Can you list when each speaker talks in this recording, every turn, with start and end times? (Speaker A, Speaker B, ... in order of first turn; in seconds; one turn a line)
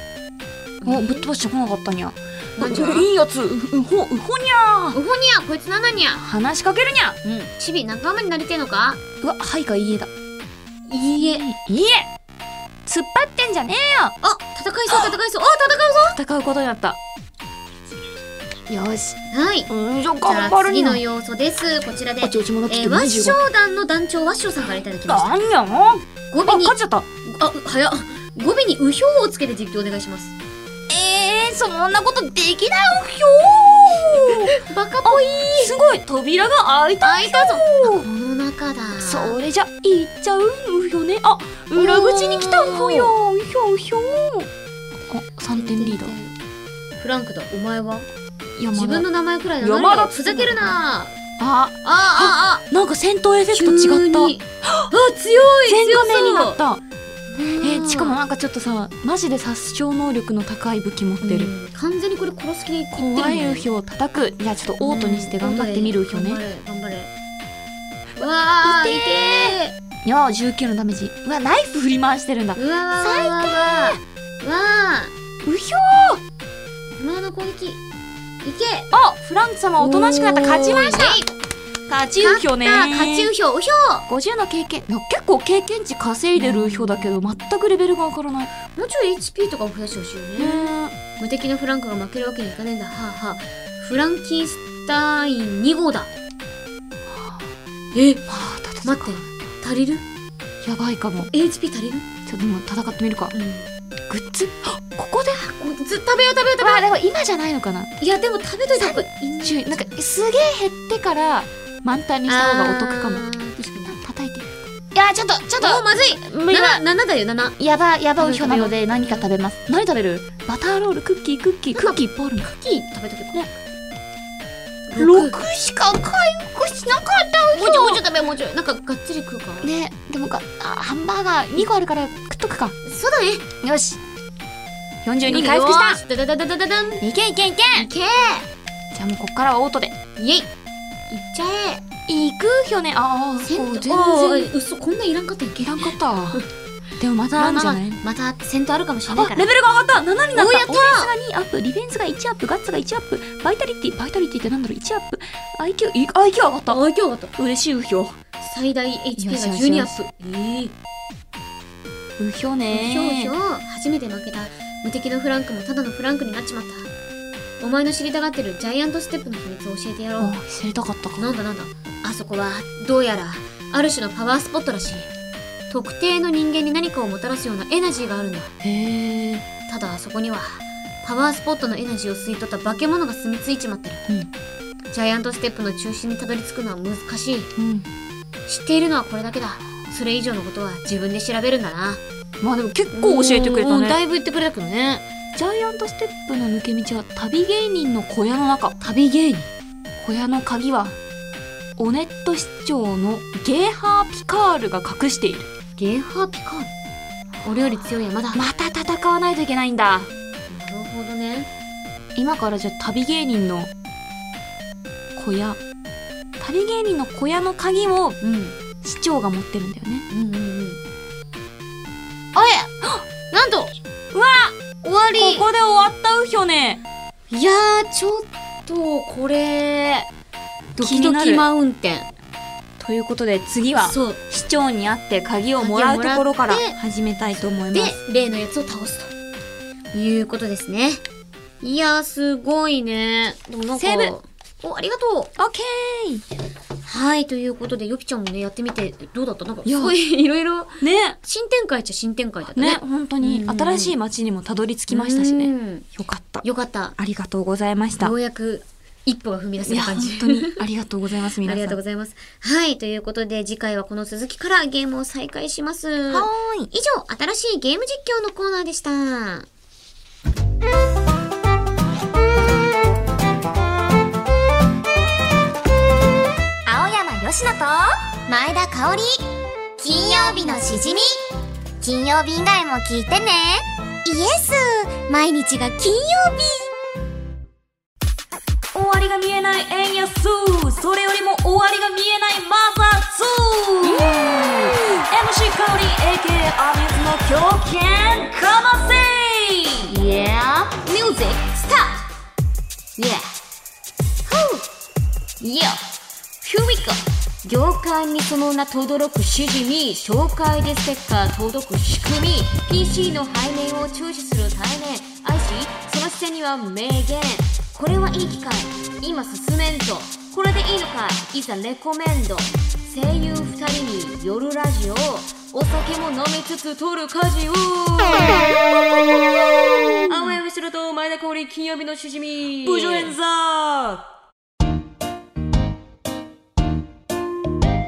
Speaker A: 0.8-1.3
Speaker B: 0.8-5.0
Speaker A: 2.6-3.1
Speaker A: 4.9-6.2
Speaker B: 6.2-7.2
Speaker A: 7.2-9.0
Speaker B: 9.2-10.1
Speaker A: 10.9-11.5
Speaker B: 11.2-12.1
Speaker B: 12.9-14.2
Speaker A: 14.2-16.2
Speaker B: 14.9-15.1
Speaker B: 16.1-17.0
Speaker B: 18.7-21.0
Speaker A: 19.3-19.7
Speaker A: 20.2-25.3
Speaker B: 22.2-23.4
Speaker B: 25.1-27.1
Speaker A: 26.3-30.4
Speaker B: 30.9-38.1
Speaker A: 34.3-35.8
Speaker A: 37.0-39.4
Speaker B: 39.0-44.5
Speaker A: 41.7-43.1
Speaker B: 45.1-46.2
Speaker A: 45.5-46.4
Speaker A: 47.0-48.1
Speaker B: 48.6-49.1
Speaker A: 48.7-51.1
Speaker B: 49.6-50.8
Speaker B: 51.4-54.9
Speaker A: 51.8-52.6
Speaker A: 53.5-56.6
Speaker B: 55.6-56.8
Speaker A: 57.3-58.2
Speaker B: 57.6-61.5
Speaker A: 61.2-63.7
Speaker B: 62.9-66.4
Speaker A: 64.8-67.1
Speaker A: 68.2-69.7
Speaker B: 68.6-74.0
Speaker A: 72.6-75.1
Speaker B: 75.4-76.2
Speaker A: 77.0-77.8
Speaker A: 78.4-78.9
Speaker B: 78.9-81.2
Speaker A: 79.8-81.3
Speaker B: 81.9-83.3
Speaker A: 82.2-84.1
Speaker B: 84.1-88.5
Speaker A: 86.4-87.3
Speaker A: 88.8-96.1
Speaker B: 90.4-91.0
Speaker B: 97.1-97.4
Speaker A: 97.9-98.3
Speaker B: 98.3-99.3
Speaker A: 98.8-100.0
Speaker B: 100.6-101.3
Speaker A: 101.3-102.1
Speaker B: 102.3-103.3
Speaker A: 103.3-103.7
Speaker B: 104.1-105.4
Speaker A: 105.3-106.8
Speaker B: 106.6-107.9
Speaker A: 108.0-109.9
Speaker B: 108.8-113.3
Speaker A: 112.3-114.0
Speaker B: 113.8-116.8
Speaker A: 115.6-117.6
Speaker B: 117.6-122.5
Speaker A: 118.2-119.3
Speaker A: 121.7-123.5
Speaker A: 124.9-125.4
Speaker B: 125.0-128.0
Speaker A: 127.5-129.7
Speaker B: 129.6-132.8
Speaker A: 132.8-133.4
Speaker B: 133.6-134.0
Speaker B: 135.0-136.0
Speaker A: 135.2-137.0
Speaker B: 137.0-137.9
Speaker A: 137.7-138.5
Speaker B: 138.9-140.0
Speaker A: 140.2-140.5
Speaker A: 141.1-141.8
Speaker B: 142.1-144.5
Speaker A: 143.4-146.4
Speaker B: 145.6-146.4
Speaker B: 147.0-148.0
Speaker A: 147.4-149.5
Speaker B: 149.1-156.8
Speaker A: 150.3-151.1
Speaker A: 156.7-157.3
Speaker B: 157.4-158.2
Speaker A: 158.4-160.7
Speaker B: 159.2-160.0
Speaker B: 162.2-163.3
Speaker A: 162.7-166.9
Speaker A: 167.6-170.4
Speaker B: 170.2-171.2
Speaker A: 171.2-175.1
Speaker A: 175.7-178.5
Speaker B: 178.6-179.5
Speaker A: 179.7-184.1
Speaker A: 184.9-187.5
Speaker B: 187.6-187.9
Speaker A: 188.5-192.0
Speaker B: 192.4-194.0
Speaker A: 192.9-195.1
Speaker B: 195.3-198.8
Speaker A: 198.8-199.5
Speaker B: 200.0-201.0
Speaker B: 201.8-205.5
Speaker A: 205.8-206.7
Speaker A: 207.4-208.4
Speaker B: 208.3-210.1
Speaker A: 210.5-211.5
Speaker B: 212.2-213.7
Speaker B: 215.2-215.6
Speaker B: 216.4-218.2
Speaker A: 218.2-218.6
Speaker B: 218.8-220.1
Speaker A: 220.1-220.8
Speaker A: 222.4-222.7
Speaker A: 223.3-223.7
Speaker B: 224.1-224.6
Speaker A: 224.8-225.5
Speaker B: 225.1-226.8
Speaker A: 227.3-230.1
Speaker A: 230.8-232.1
Speaker B: 230.8-231.5
Speaker B: 232.8-237.9
Speaker A: 233.8-234.2
Speaker A: 235.6-236.8
Speaker A: 237.7-239.1
Speaker A: 239.9-241.0
Speaker A: 241.6-245.3
Speaker B: 243.5-244.2
Speaker B: 245.4-246.2
Speaker A: 246.8-253.9
Speaker B: 249.7-249.9
Speaker B: 250.8-251.2
Speaker B: 252.6-256.4
Speaker A: 254.9-255.9
Speaker A: 256.4-257.0
Speaker B: 257.0-258.1
Speaker A: 258.0-260.6
Speaker B: 259.6-261.8
Speaker A: 261.4-269.5
Speaker B: 266.1-266.7
Speaker C: 276.7-279.2
Speaker C: 279.8-281.2
Speaker A: 279.9-280.7
Speaker C: 281.8-286.4
Speaker A: 286.1-286.5
Speaker B: 288.7-300.0
Speaker A: 293.6-294.1
Speaker A: 299.9-302.1
Speaker A: 303.0-303.3
Speaker A: 304.3-304.6
Speaker A: 305.4-305.8
Speaker A: 306.4-328.7
Speaker A: 330.1-333.1
Speaker B: 332.6-334.1